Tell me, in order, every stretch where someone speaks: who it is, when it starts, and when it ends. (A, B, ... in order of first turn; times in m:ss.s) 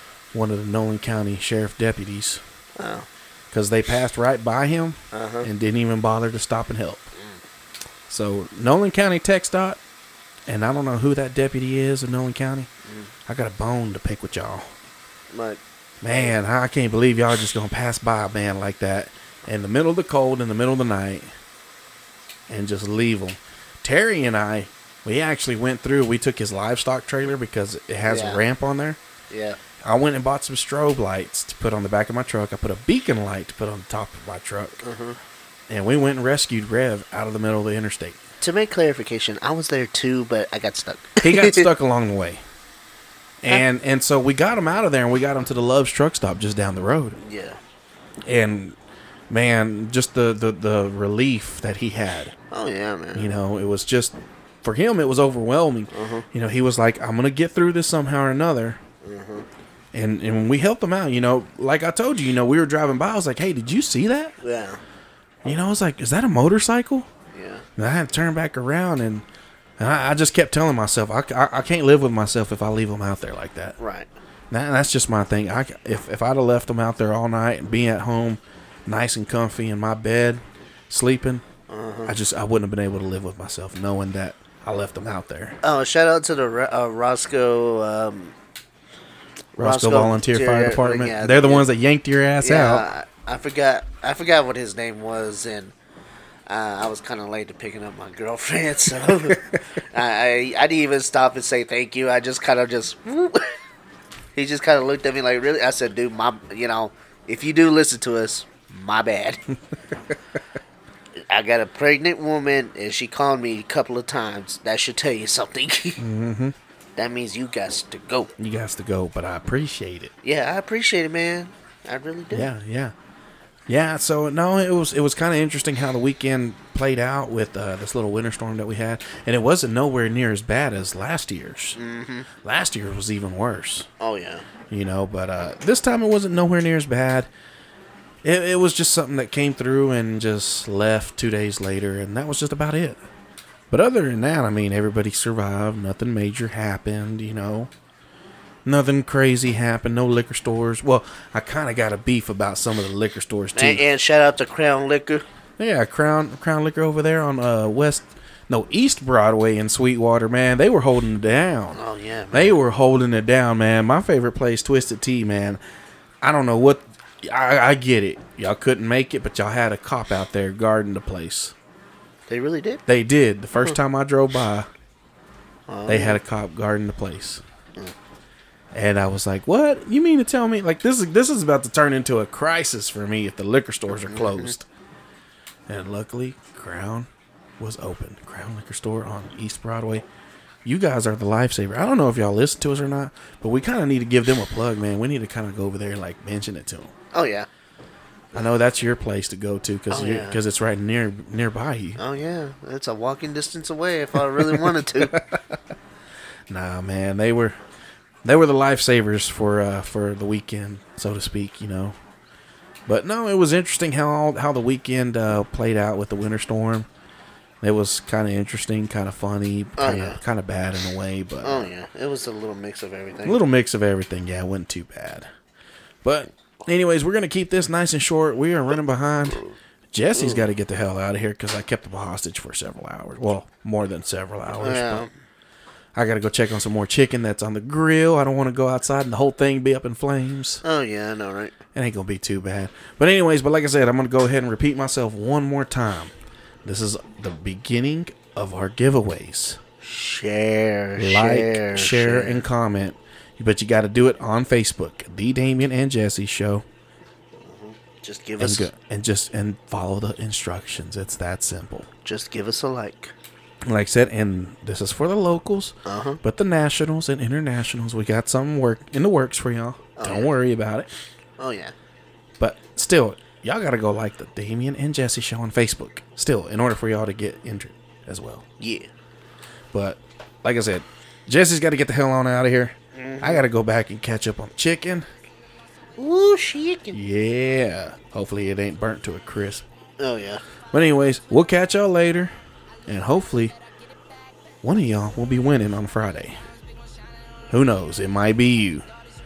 0:00.3-0:02.4 A
0:02.8-0:03.1 B
0:03.5-0:07.1 A
0:05.1-0:05.5 B
0:08.1-0:09.8 A
0:10.5-0:12.7 A
0:12.9-0:13.1 B
0:13.3-0:14.7 A
0:15.3-0:16.4 B
0:16.0-0:21.3 A
0:22.5-0:29.0 A
0:28.0-0:28.4 B
0:29.3-0:29.6 B
0:29.8-0:34.8 A
0:34.8-0:35.2 B
0:35.7-0:38.2 A
0:38.4-0:41.7 B
0:41.2-0:42.4 A
0:43.4-0:47.2 A
0:47.2-0:47.6 B
0:48.2-0:48.8 A
0:49.3-0:52.3 A
0:52.5-0:53.4 B
0:53.2-0:58.8 A
0:55.9-0:56.3 B
0:59.0-0:59.5 B
0:59.9-1:04.4 A
1:04.4-1:04.8 B
1:05.4-1:07.1 A
1:07.3-1:07.7 B
1:07.8-1:09.2 A
1:09.8-1:13.8 A
1:13.8-1:14.1 B
1:14.5-1:21.4 A
1:21.7-1:22.2 B
1:22.1-1:25.6 A
1:25.6-1:28.4 B
1:29.6-1:32.9 A
1:29.6-1:31.7 B
1:32.4-1:35.7 B
1:36.5-1:43.5 B
1:39.3-1:39.6 A
1:44.3-1:49.4 B
1:51.3-1:56.0 B
1:56.0-1:56.6 A
1:57.0-1:58.3 B
1:58.4-2:00.1 A
2:00.2-2:02.5 B
2:02.3-2:02.9 A
2:03.7-2:11.8 A
2:11.8-2:12.3 B
2:12.4-2:13.9 A
2:14.0-2:14.5 B
2:14.7-2:17.3 A
2:18.2-2:23.0 A
2:23.7-2:27.7 A
2:28.6-2:33.8 A
2:33.6-2:35.2 B
2:35.6-2:41.8 A
2:41.7-2:42.6 B
2:42.3-2:45.6 A
2:46.2-2:51.5 A
2:52.3-2:52.8 B
2:52.9-2:54.7 A
2:55.7-2:56.2 B
2:55.9-2:57.4 A
2:58.7-3:04.7 A
3:03.9-3:04.5 B
3:05.7-3:07.1 A
3:07.6-3:10.0 A
3:10.6-3:16.9 A
3:17.1-3:17.5 B
3:18.3-3:22.0 A
3:19.9-3:20.4 B
3:22.0-3:25.2 B
3:24.3-3:25.6 A
3:26.5-3:27.6 A
3:28.2-3:32.0 A
3:32.9-3:36.9 A
3:37.6-3:41.7 A
3:39.8-3:40.2 B
3:41.4-3:43.4 B
3:43.2-3:45.3 A
3:46.0-3:49.4 A
3:49.9-3:55.1 A
3:50.2-3:50.4 B
3:54.6-3:55.1 B
3:56.0-4:00.6 A
4:00.6-4:01.6 B
4:01.8-4:06.1 A
4:06.6-4:09.6 A
4:09.8-4:12.5 B
4:11.0-4:16.6 A
4:17.4-4:18.7 B
4:18.4-4:21.9 A
4:22.0-4:23.1 B
4:23.7-4:30.9 A
4:25.8-4:26.2 B
4:30.0-4:30.3 B
4:31.4-4:31.7 B
4:32.4-4:38.4 A
4:38.6-4:38.9 B
4:39.7-4:45.0 A
4:43.0-4:43.5 B
4:46.0-4:47.0 B
4:46.9-4:49.6 A
4:50.0-4:50.4 B
4:50.7-4:52.3 A
4:52.9-4:53.6 A
4:54.6-4:56.4 A
4:57.5-4:58.9 A